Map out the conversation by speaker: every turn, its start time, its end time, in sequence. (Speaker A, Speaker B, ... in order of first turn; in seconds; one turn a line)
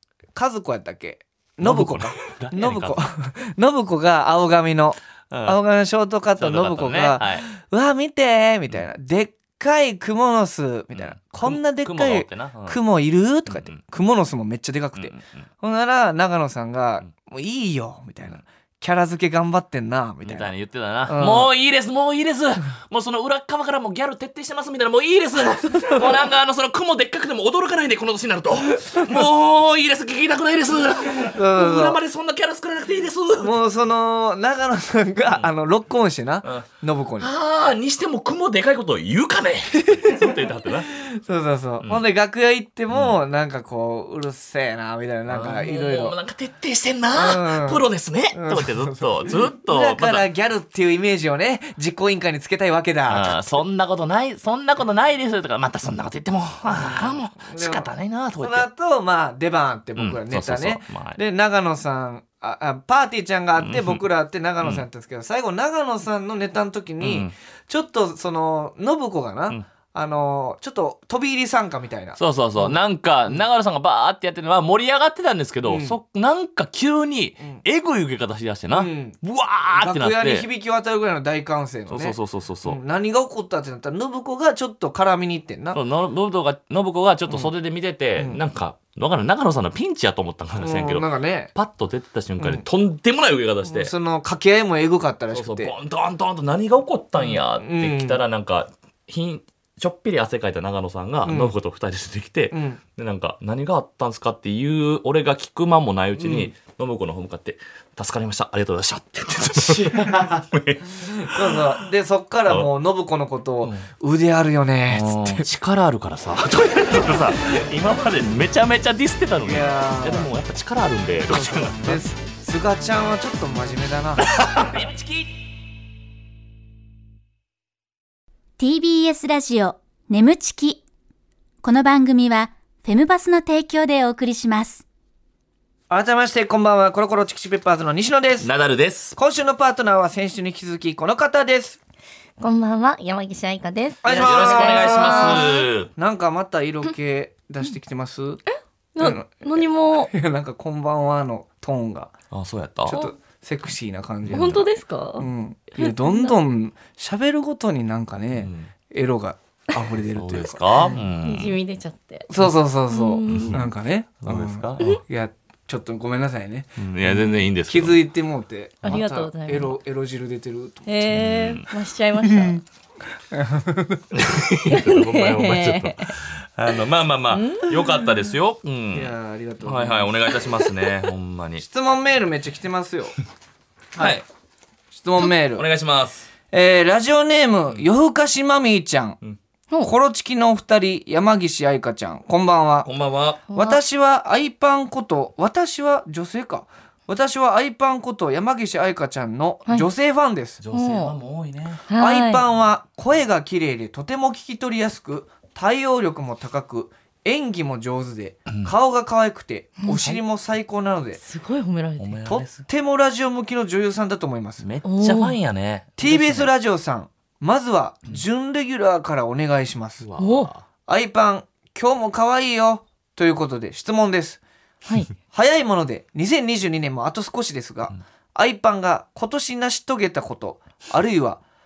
Speaker A: 0.3-20.5
Speaker B: 1.6-3.0
Speaker B: 5.3-5.6
Speaker B: 6.4-7.5
Speaker B: 10.9-12.8
Speaker B: 13.5-13.8
Speaker B: 14.9-15.4
Speaker B: 20.2-33.5
Speaker A: 21.1-21.5
Speaker A: 25.8-26.1
Speaker A: 31.3-32.0
Speaker A: 33.4-37.3
Speaker B: 37.2-40.9
Speaker A: 39.8-40.4
Speaker A: 40.9-46.2
Speaker B: 42.9-43.2
Speaker B: 45.3-50.2
Speaker A: 47.1-53.6
Speaker B: 53.1-58.7
Speaker A: 56.6-57.9
Speaker A: 58.4-72.8
Speaker B: 60.0-61.2
Speaker B: 63.6-64.0
Speaker B: 67.0-67.3
Speaker B: 72.2-80.5
Speaker A: 75.6-76.0
Speaker A: 78.7-79.2
Speaker A: 79.7-85.8
Speaker B: 81.9-82.8
Speaker B: 85.7-93.9
Speaker A: 90.5-91.5
Speaker A: 93.7-95.7
Speaker B: 95.3-111.8
Speaker A: 97.2-98.2
Speaker A: 101.2-101.5
Speaker A: 102.5-102.8
Speaker A: 106.2-106.5
Speaker A: 109.5-110.5
Speaker A: 111.0-115.4
Speaker B: 114.9-122.0
Speaker A: 119.4-120.3
Speaker A: 121.3-124.6
Speaker B: 124.2-125.3
Speaker C: 128.6-130.8
Speaker C: 131.6-134.8
Speaker A: 135.9-138.5
Speaker B: 138.4-139.2
Speaker A: 139.1-141.8
Speaker D: 142.4-145.5
Speaker A: 144.0-148.4
Speaker B: 144.1-145.9
Speaker D: 148.5-150.1
Speaker A: 149.0-152.1
Speaker B: 152.3-153.0
Speaker A: 152.9-161.0
Speaker B: 154.2-154.7
Speaker D: 154.3-156.3
Speaker B: 158.3-158.7
Speaker B: 160.1-161.6
Speaker D: 161.2-162.3
Speaker A: 162.3-171.0
Speaker D: 162.9-163.6
Speaker B: 163.3-163.7
Speaker B: 164.2-165.0
Speaker B: 166.8-168.0
Speaker D: 168.8-169.8
Speaker D: 170.9-172.6
Speaker B: 171.1-171.7
Speaker A: 172.2-172.6
Speaker A: 173.3-174.1
Speaker B: 174.1-181.6
Speaker D: 174.7-176.1
Speaker D: 177.3-177.9
Speaker A: 178.9-180.3
Speaker A: 181.6-183.1
Speaker A: 183.9-184.2
Speaker B: 184.0-184.2
Speaker A: 184.9-185.7
Speaker B: 185.3-186.3
Speaker A: 186.5-189.2
Speaker A: 189.8-192.9
Speaker B: 192.8-193.4
Speaker D: 193.5-193.8
Speaker A: 193.5-200.6
Speaker B: 200.6-201.9
Speaker D: 200.7-201.1
Speaker D: 201.9-202.4
Speaker A: 202.0-211.2
Speaker B: 209.9-210.2
Speaker D: 211.2-212.2
Speaker B: 212.0-212.6
Speaker A: 212.2-214.7
Speaker B: 214.6-216.5
Speaker D: 214.8-215.3
Speaker A: 216.0-220.1
Speaker B: 220.0-220.6
Speaker D: 220.2-220.5
Speaker A: 220.9-224.4
Speaker D: 224.8-225.1
Speaker A: 225.3-231.4